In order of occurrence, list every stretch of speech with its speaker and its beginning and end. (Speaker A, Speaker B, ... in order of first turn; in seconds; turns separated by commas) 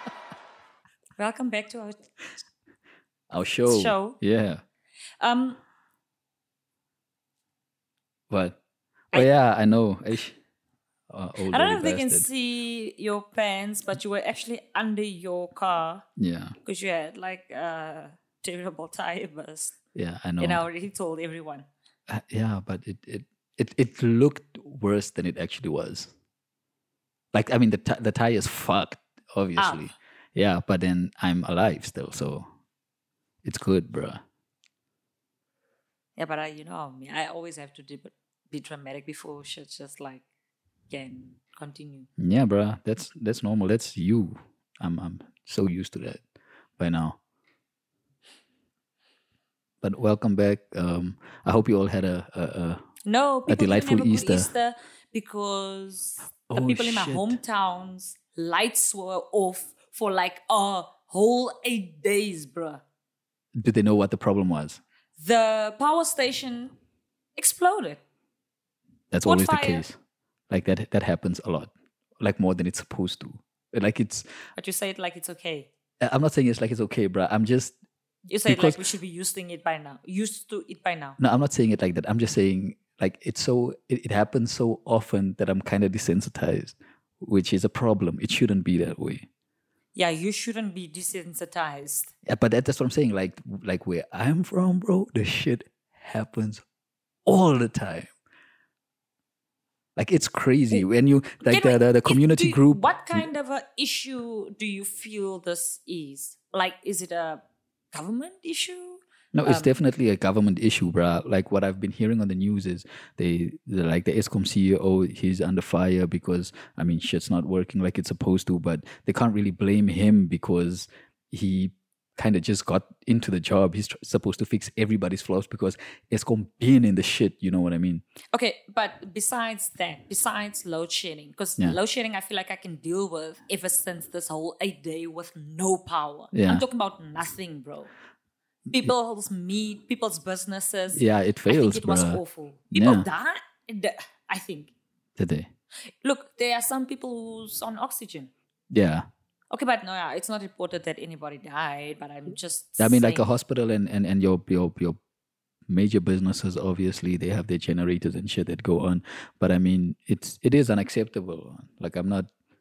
Speaker A: 1.2-2.0, Speaker B: 3.3-4.6, Speaker A: 3.6-4.2, Speaker A: 5.2-5.6, Speaker B: 8.3-8.6, Speaker B: 9.1-10.4, Speaker B: 11.1-12.3, Speaker A: 11.5-16.0, Speaker B: 16.2-16.6, Speaker A: 16.6-19.8, Speaker B: 19.9-20.6, Speaker A: 20.4-21.7, Speaker B: 22.1-26.1, Speaker B: 27.3-32.5, Speaker A: 29.6-29.9, Speaker B: 33.4-34.2, Speaker A: 36.2-40.2, Speaker A: 40.9-42.1, Speaker B: 42.2-46.2, Speaker B: 46.8-47.2, Speaker B: 49.8-52.8, Speaker A: 53.0-62.8, Speaker B: 53.5-54.5, Speaker B: 56.5-57.4, Speaker B: 63.6-64.8, Speaker A: 65.2-66.7, Speaker A: 67.3-68.0, Speaker B: 69.1-70.0, Speaker A: 69.2-69.8, Speaker B: 70.5-74.2, Speaker A: 74.6-75.7, Speaker B: 76.0-77.8, Speaker A: 78.3-81.2, Speaker B: 78.5-78.8, Speaker B: 81.2-89.3, Speaker A: 89.9-92.1, Speaker B: 92.2-96.6, Speaker B: 97.2-98.1, Speaker B: 100.0-103.3, Speaker A: 101.4-109.8, Speaker B: 109.3-128.0, Speaker A: 128.3-137.9, Speaker B: 136.3-136.6, Speaker A: 138.7-144.7, Speaker B: 140.9-143.1, Speaker B: 145.2-145.5, Speaker A: 146.0-148.3, Speaker B: 148.7-149.1, Speaker A: 149.5-153.3, Speaker B: 152.8-155.0, Speaker B: 155.7-162.3